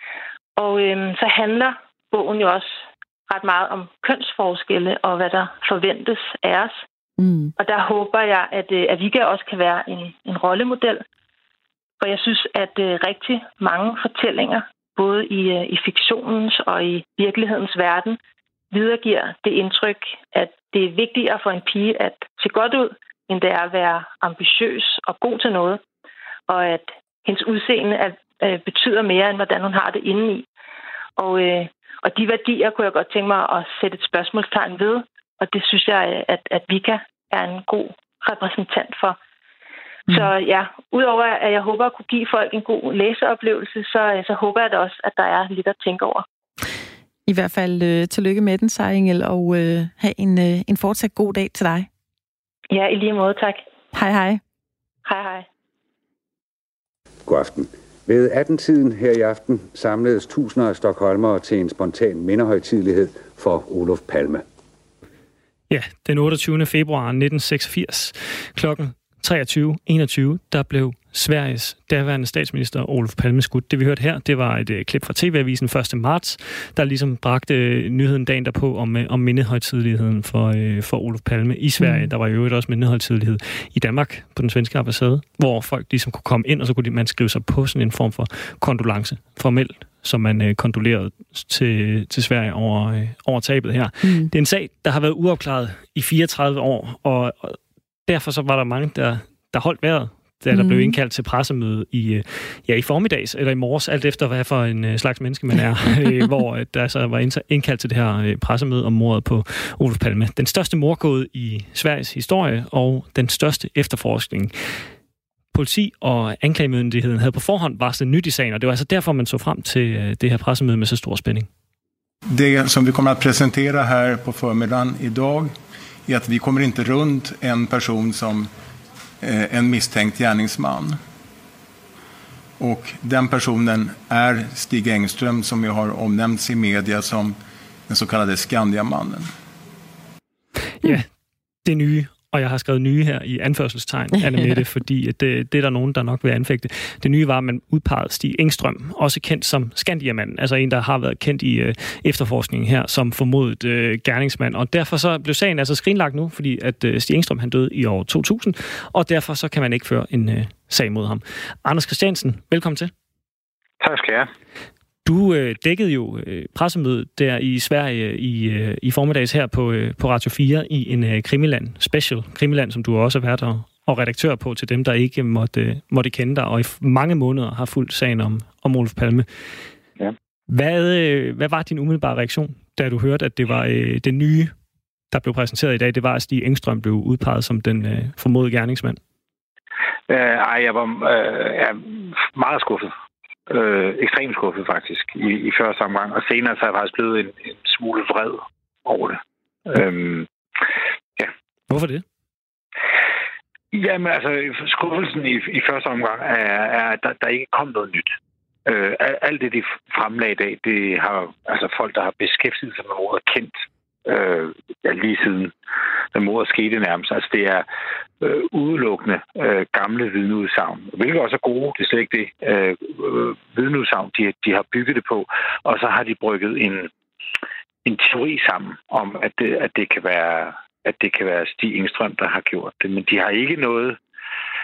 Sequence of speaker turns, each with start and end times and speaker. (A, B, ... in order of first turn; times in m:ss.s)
0:00.6-0:06.8 A
0:07.2-0:07.5 B
0:07.6-0:11.0 A
0:12.0-0:18.2 A
0:18.7-0:25.8 A
0:26.5-0:30.4 A
0:31.2-0:39.2 A
0:40.1-0:46.2 A
0:47.2-0:51.9 B
0:52.7-0:53.6 A
0:53.9-0:54.4 B
0:55.0-0:55.4 A
0:57.2-1:04.4 C
1:05.7-1:54.5 D
1:21.8-1:22.1 B
1:34.0-1:34.3 B
1:40.5-1:41.0 B
1:55.5-2:01.5 D
2:02.3-2:05.5 E
2:06.0-2:08.5 E
2:09.2-2:11.0 E
2:12.6-2:17.4 E
2:17.9-2:19.3 E
2:20.8-2:21.1 D
2:21.6-2:42.9 D
2:43.8-2:44.3 F
2:45.0-2:59.3 D
3:00.5-3:04.5 D
3:05.1-3:09.0 D
3:10.1-3:12.9 F
3:13.5-3:20.3 F
3:21.7-3:22.0 D
3:23.7-3:35.5 F
3:36.1-3:37.7 F
3:38.2-3:46.9 F
3:47.8-3:54.0 F